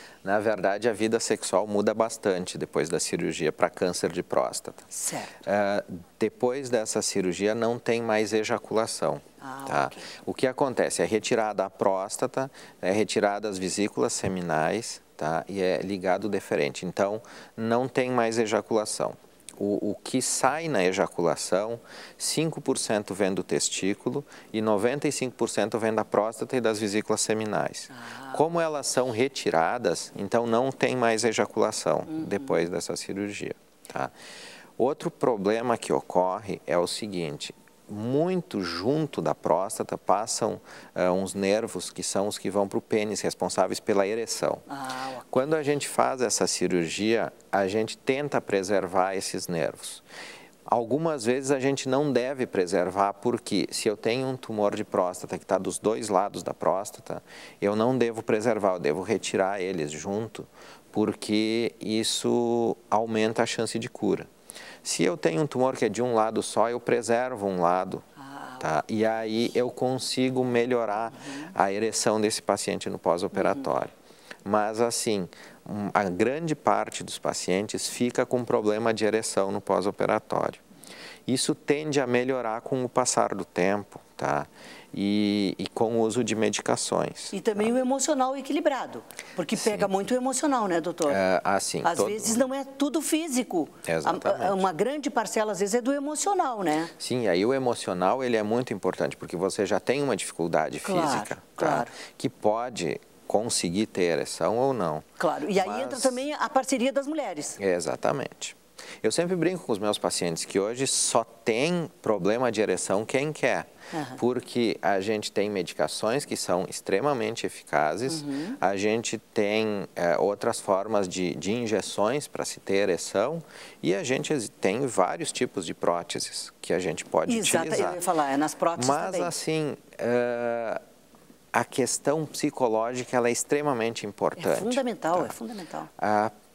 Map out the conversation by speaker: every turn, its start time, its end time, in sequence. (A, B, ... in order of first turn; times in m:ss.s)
0:00.2-0:04.9 A
0:04.9-0:05.4 B
0:05.4-0:34.1 A
0:09.4-0:10.1 B
0:27.9-0:28.4 B
0:32.1-0:32.5 B
0:34.8-0:44.6 A
0:44.7-0:45.4 B
0:45.3-0:50.0 A
0:50.7-1:04.3 A
1:04.8-1:08.0 A
1:08.2-1:08.7 B
1:08.6-1:13.9 A
1:11.2-1:11.5 B
1:14.4-1:20.6 A
1:21.3-1:27.7 A
1:27.3-1:31.2 B
1:29.6-1:29.9 A
1:31.1-1:32.4 A
1:31.8-1:36.9 B
1:33.8-1:34.7 A
1:37.0-1:46.2 A
1:40.8-1:41.9 B
1:45.2-1:47.6 B
1:47.6-2:08.0 A
1:53.9-1:54.2 B
1:58.1-1:58.6 B
2:07.3-2:09.3 B
2:08.8-2:10.8 A
2:11.5-2:15.3 A
2:14.4-2:15.9 B
2:16.0-2:16.3 A